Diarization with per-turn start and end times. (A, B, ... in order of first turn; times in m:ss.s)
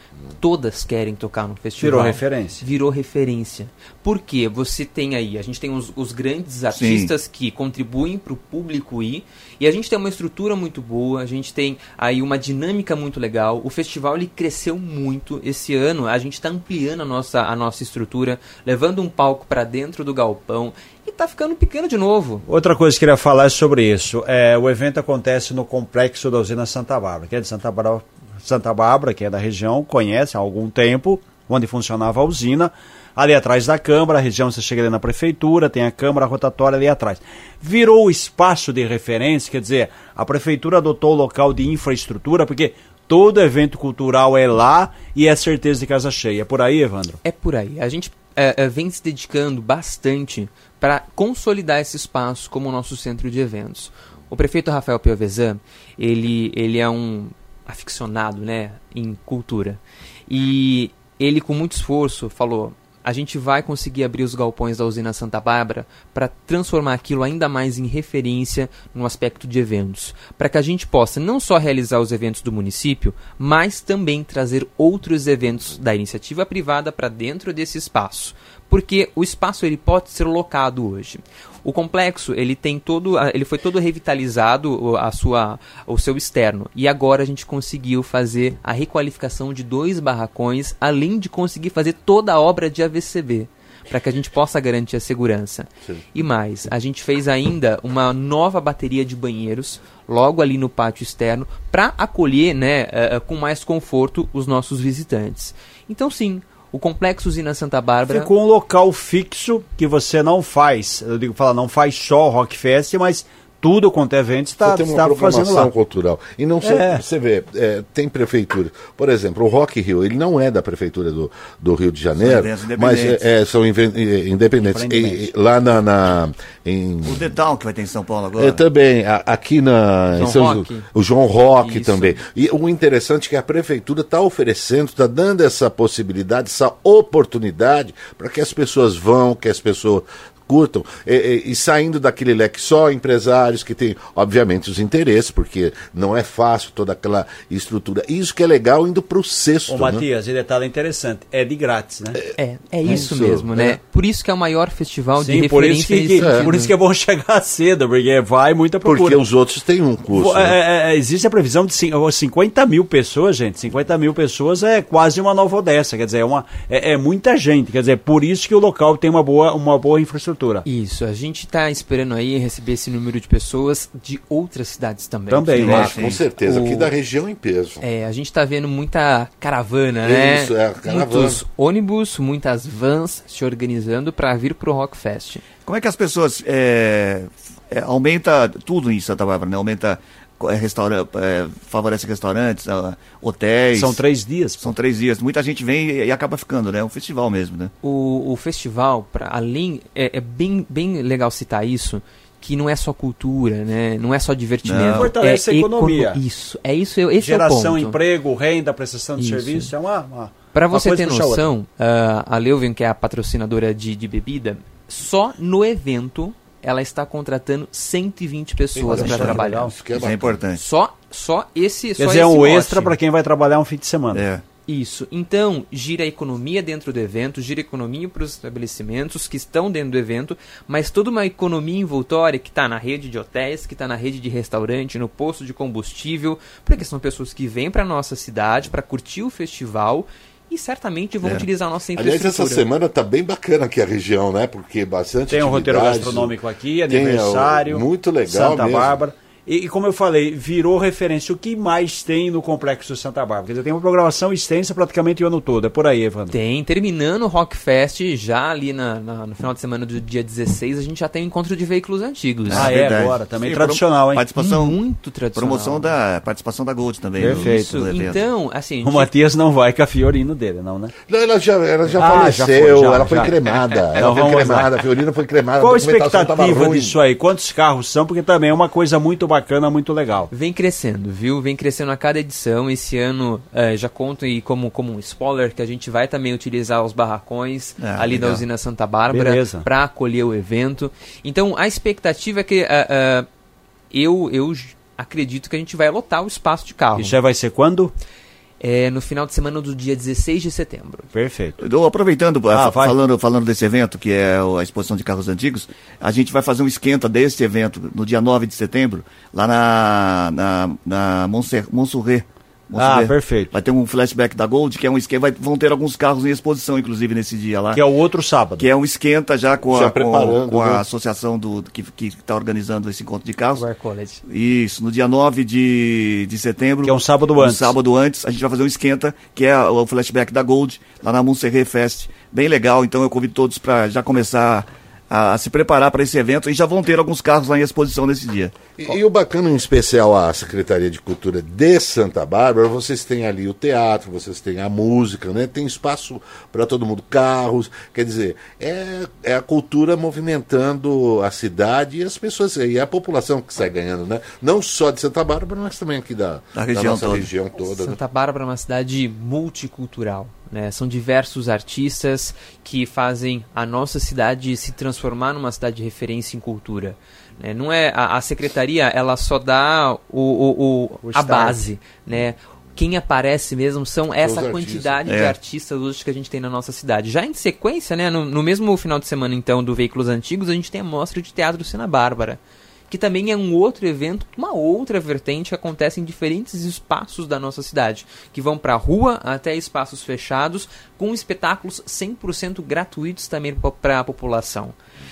0:00.4-0:22.5 A
0:01.8-0:02.6 B
0:06.7-0:07.1 C
0:22.5-0:47.2 B
0:47.2-1:48.3 A
1:48.1-1:55.7 B
1:54.6-2:07.3 D
1:56.6-1:57.0 B
2:02.2-2:03.2 C
2:04.6-2:05.3 B
2:07.0-2:08.6 C
2:08.4-2:30.1 D
2:10.2-2:10.9 A
2:11.6-2:12.2 A
2:29.7-2:32.2 B
2:32.4-2:36.7 A
2:32.8-2:33.8 D
2:35.2-2:39.2 B
2:36.2-2:36.5 D
2:38.8-2:40.6 D
2:40.1-2:50.6 B
2:50.6-2:55.9 A
2:55.3-2:55.9 B
2:55.6-2:57.8 D
2:55.6-2:56.2 C
2:56.4-2:56.9 A
2:57.8-3:05.4 A
3:00.0-3:01.4 D
3:05.7-3:14.0 C
3:13.8-3:14.8 B
3:14.6-3:17.7 C
3:17.8-3:28.0 A
3:24.6-3:25.1 C
3:25.0-3:26.2 B
3:27.2-3:31.5 B
3:29.2-3:29.7 A
3:30.5-3:39.7 A
3:38.8-3:40.4 D
3:38.9-3:39.7 B
3:38.9-3:39.4 C
3:39.9-3:40.6 C
3:40.6-3:43.0 A
3:42.0-3:44.2 B
3:44.1-3:44.4 C
3:44.7-4:02.7 A
4:02.0-4:06.4 D
4:05.3-4:16.4 B
4:06.9-4:09.0 D
4:16.3-4:22.7 A
4:22.5-4:24.8 C
4:22.5-4:24.2 B
4:24.4-4:25.9 A
4:25.4-4:28.2 C
4:27.2-4:27.8 B
4:27.2-4:29.1 A
4:28.8-4:30.9 B
4:31.1-4:37.0 D
4:32.0-4:33.3 B
4:33.5-4:34.6 A
4:34.0-4:34.7 B
4:35.6-4:40.3 B
4:40.3-4:53.3 A
4:47.8-4:48.4 C
4:49.1-4:49.7 B
4:53.9-4:57.2 A
4:57.0-4:57.9 B
4:58.6-5:01.1 A
5:01.1-5:01.6 B
5:01.6-5:17.8 C
5:02.5-5:03.0 B
5:12.8-5:13.5 B
5:17.7-5:18.6 B
5:18.6-5:23.6 C
5:19.7-5:20.8 D
5:23.6-5:24.2 A
5:24.2-5:38.7 C
5:26.8-5:27.8 B
5:38.8-5:58.0 D
5:56.6-5:57.3 C
5:57.6-6:34.8 A
6:11.0-6:11.7 B
6:14.2-6:15.2 D
6:15.1-6:15.4 C